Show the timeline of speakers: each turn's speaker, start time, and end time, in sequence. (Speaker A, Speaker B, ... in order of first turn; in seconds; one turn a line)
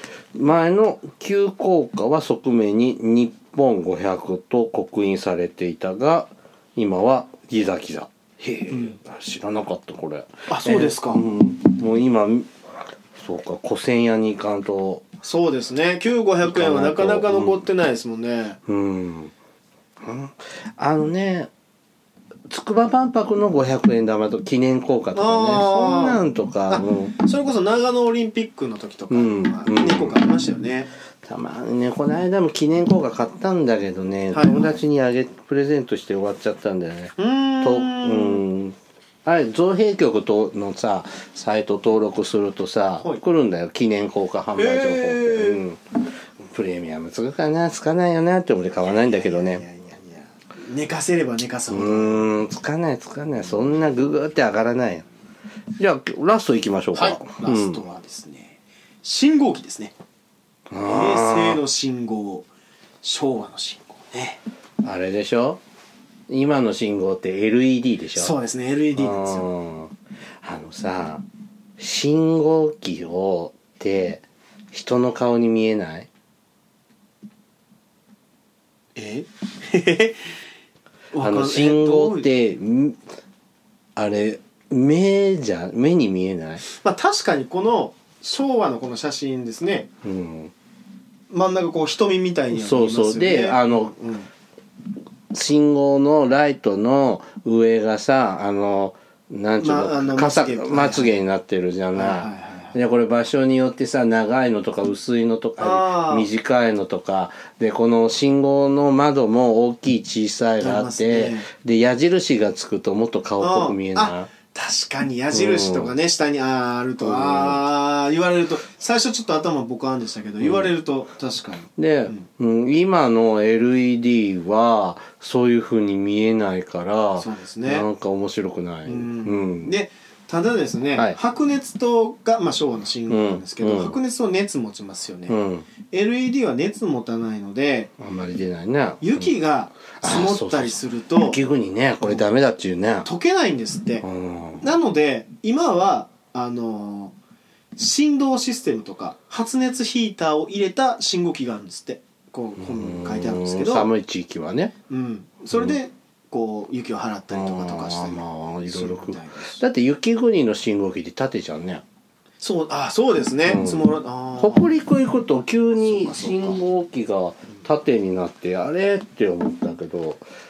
Speaker A: 0.3-12.5
Speaker B: 8.7-9.0
Speaker B: 10.5-11.2
Speaker A: 13.2-15.1
Speaker B: 15.2-18.6
Speaker A: 16.4-17.6
Speaker A: 18.7-19.3
Speaker A: 20.0-21.5
Speaker A: 22.5-27.1
Speaker B: 25.1-30.9
Speaker A: 29.1-30.2
Speaker A: 31.2-49.6
Speaker B: 34.3-34.8
Speaker B: 37.2-38.4
Speaker B: 44.5-45.6
Speaker B: 48.9-52.3
Speaker A: 51.7-55.1
Speaker A: 55.8-57.8
Speaker B: 56.9-59.9
Speaker A: 60.7-61.6
Speaker B: 60.9-62.5
Speaker B: 63.0-64.4
Speaker A: 64.8-65.6
Speaker A: 66.3-68.4
Speaker B: 68.2-69.5
Speaker A: 69.0-71.2
Speaker A: 71.8-76.1
Speaker B: 79.0-80.3
Speaker B: 81.1-82.3
Speaker A: 81.2-83.0
Speaker A: 84.0-86.6
Speaker B: 86.6-89.9
Speaker A: 90.0-90.5
Speaker B: 91.3-94.3
Speaker A: 92.5-93.9
Speaker A: 95.3-114.3
Speaker B: 99.6-101.1
Speaker B: 101.9-102.8
Speaker B: 105.6-106.3
Speaker B: 110.6-111.5
Speaker B: 113.4-122.3
Speaker A: 115.3-115.9
Speaker A: 117.0-117.6
Speaker A: 120.4-120.7
Speaker A: 121.8-129.8
Speaker B: 127.2-127.9
Speaker B: 128.9-135.4
Speaker A: 133.1-133.9
Speaker A: 135.3-135.7
Speaker B: 135.9-137.9
Speaker A: 138.0-139.3
Speaker B: 139.0-141.4
Speaker A: 140.0-143.1
Speaker B: 143.0-144.1
Speaker A: 144.0-144.7
Speaker B: 144.6-147.1
Speaker B: 147.8-153.9
Speaker A: 152.6-154.7
Speaker B: 154.9-159.6
Speaker A: 157.3-161.8
Speaker B: 162.4-164.7
Speaker A: 163.4-170.2
Speaker B: 165.8-166.6